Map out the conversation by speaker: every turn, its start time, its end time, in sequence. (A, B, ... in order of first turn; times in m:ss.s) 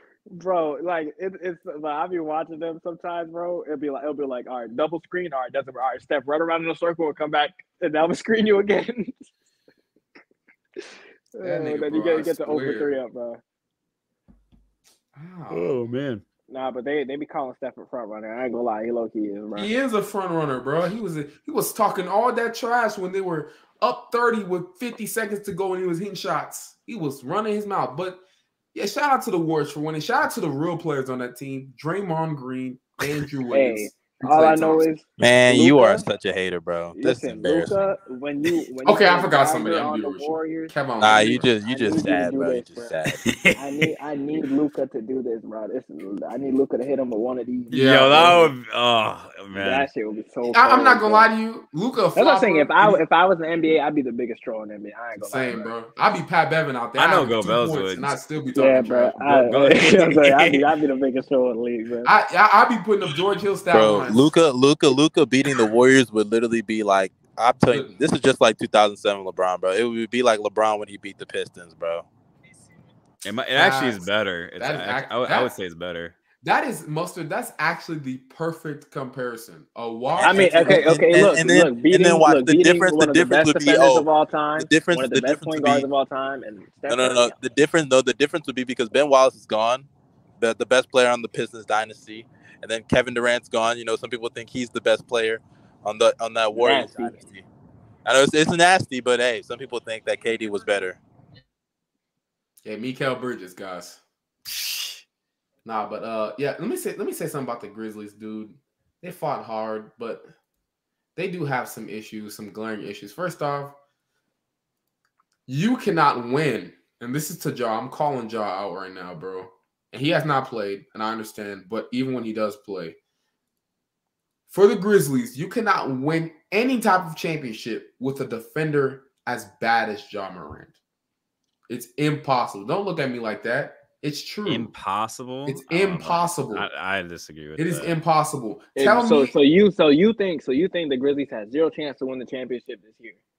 0:00.3-0:09.3 A
0:11.3-0:13.4 A
0:11.4-0:13.0 B
0:15.2-0:15.8 B
0:15.5-0:16.2 C
0:16.5-0:19.7 A
0:19.6-0:28.2 B
0:28.7-0:34.9 B
0:33.5-0:36.0 A
0:35.2-0:37.8 D
0:37.0-0:40.7 A
0:38.8-0:41.5 B
0:41.0-0:43.2 D
0:41.7-0:42.9 A
0:43.2-0:43.9 C
0:43.6-0:47.8 A
0:47.7-0:48.5 B
0:47.7-0:49.9 C
0:49.5-0:51.3 A
0:50.5-0:53.0 B
0:52.2-0:55.7 A
0:55.2-1:00.0 B
0:57.0-0:58.2 C
0:58.6-1:02.1 A
0:59.8-1:00.6 C
1:02.0-1:04.3 B
1:03.7-1:12.1 D
1:07.7-1:08.0 B
1:13.2-1:16.2 C
1:13.5-1:14.1 B
1:14.6-1:15.5 B
1:16.4-1:20.9 B
1:20.2-1:25.9 D
1:20.2-1:27.4 A
1:26.9-1:29.9 D
1:30.4-1:37.4 D
1:36.5-1:37.2 A
1:38.0-1:41.0 D
1:42.6-1:44.0 B
1:45.6-1:50.3 B
1:51.2-1:53.8 B
1:55.5-2:03.0 B
2:04.5-2:10.8 B
2:11.7-2:14.7 B
2:14.5-2:18.0 C
2:15.5-2:16.7 B
2:17.6-2:19.4 B
2:18.8-2:23.2 A